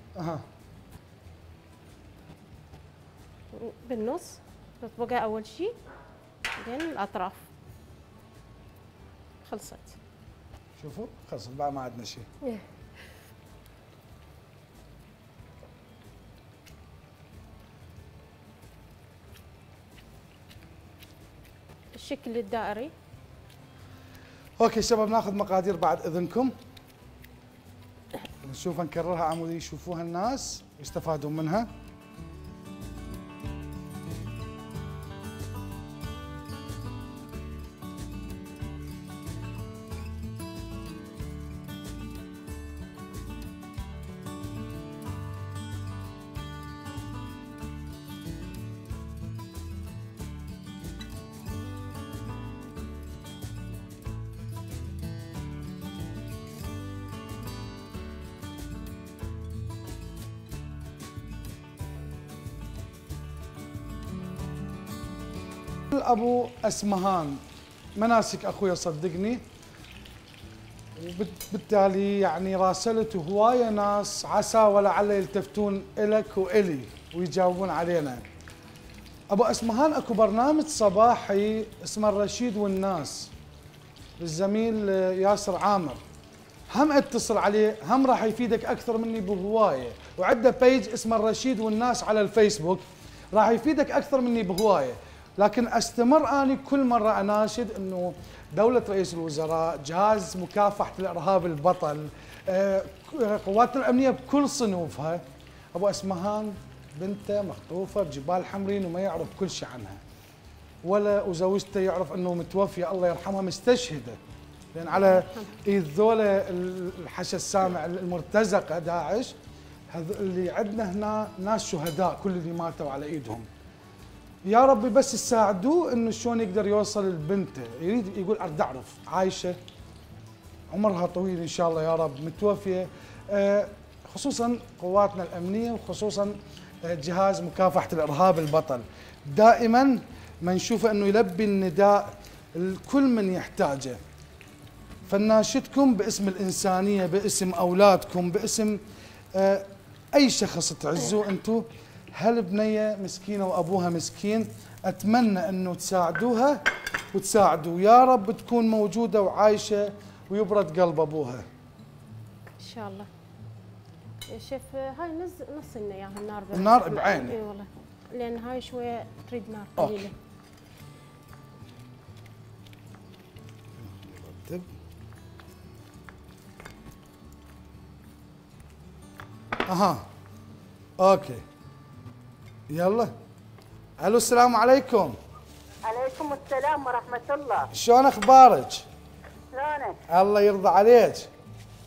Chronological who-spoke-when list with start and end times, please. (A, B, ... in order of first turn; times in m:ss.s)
0:00.2-0:00.4 A
0:03.5-0:05.7 B
0:06.6-0:07.5 B
0:09.4-0:10.0 B
0:10.8-0:12.3 A
0:21.9-0:22.9 B
0:24.6-0:26.5 A
0:28.4-0:31.7 A
1:05.9-1:07.4 A
1:08.0-1:09.4 A
1:11.0-1:18.2 A
1:19.3-1:23.3 A
1:24.2-1:26.0 A
1:26.7-1:45.2 A
1:45.7-1:50.0 A
1:50.8-1:54.2 A
1:54.7-1:59.4 A
1:54.9-1:55.6 B
1:59.9-2:03.5 A
2:04.4-2:09.6 A
2:10.7-2:24.0 A
2:25.1-2:28.8 A
2:29.4-2:41.5 A
2:42.6-2:43.1 B
2:44.3-2:50.2 B
2:46.5-2:47.4 A
2:49.8-2:50.1 A
2:53.8-2:54.7 A
2:59.7-3:00.0 A
3:01.0-3:01.4 A
3:02.7-3:03.1 A
3:04.0-3:05.2 A
3:05.9-3:07.7 C
3:07.7-3:08.9 A
3:09.5-3:10.0 C
3:10.1-3:11.3 A